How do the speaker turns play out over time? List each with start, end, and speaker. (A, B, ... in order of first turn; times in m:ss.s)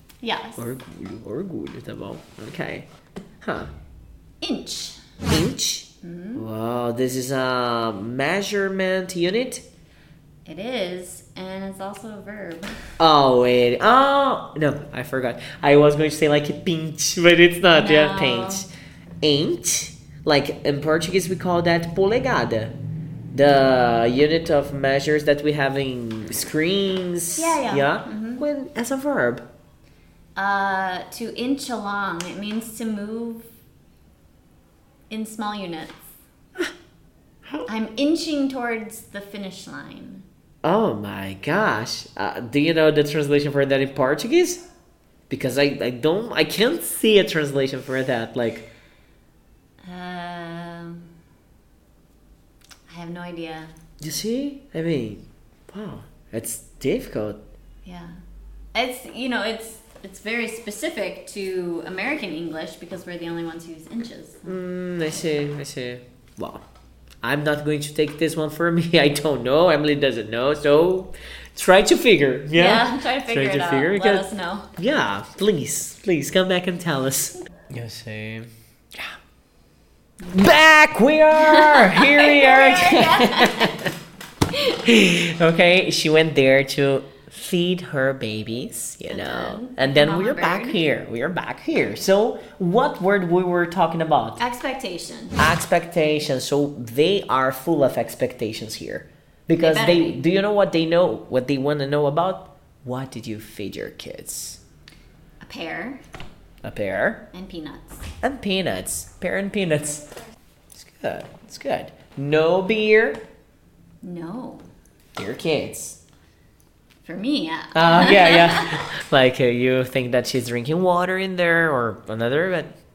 0:00.2-0:00.6 A
0:00.6-0:02.9 B
0:03.4-0:03.7 B
0:04.4-0:05.0 A
0:05.3-0:09.6 B
0:06.0-0:06.4 A
0:10.4-0:12.8 A
0:13.0-0:18.7 B
0:17.8-0:18.6 A
0:19.2-0:22.7 B
0:23.3-0:29.4 B
0:27.4-0:28.4 A
0:30.4-0:33.4 A
0:35.1-0:36.1 A
0:37.6-0:40.2 A
0:40.6-0:44.6 B
0:45.3-0:48.6 B
0:49.8-0:51.1 A
0:52.9-0:53.7 A
0:54.0-0:57.4 B
0:57.8-0:58.2 A
0:58.7-1:04.6 A
1:04.4-1:06.6 B
1:07.2-1:19.2 B
1:12.5-1:14.7 A
1:20.3-1:23.9 B
1:21.3-1:23.9 A
1:24.7-1:34.4 B
1:29.1-1:30.8 A
1:34.4-1:35.4 A
1:35.4-1:44.6 B
1:39.6-1:40.2 A
1:45.4-1:46.0 A
1:46.6-1:47.2 B
1:47.3-1:48.0 A
1:48.2-1:50.1 B
1:50.7-1:53.2 B
1:54.0-1:54.6 A
1:55.2-1:56.0 B
1:57.0-1:58.9 A
1:57.7-2:02.7 B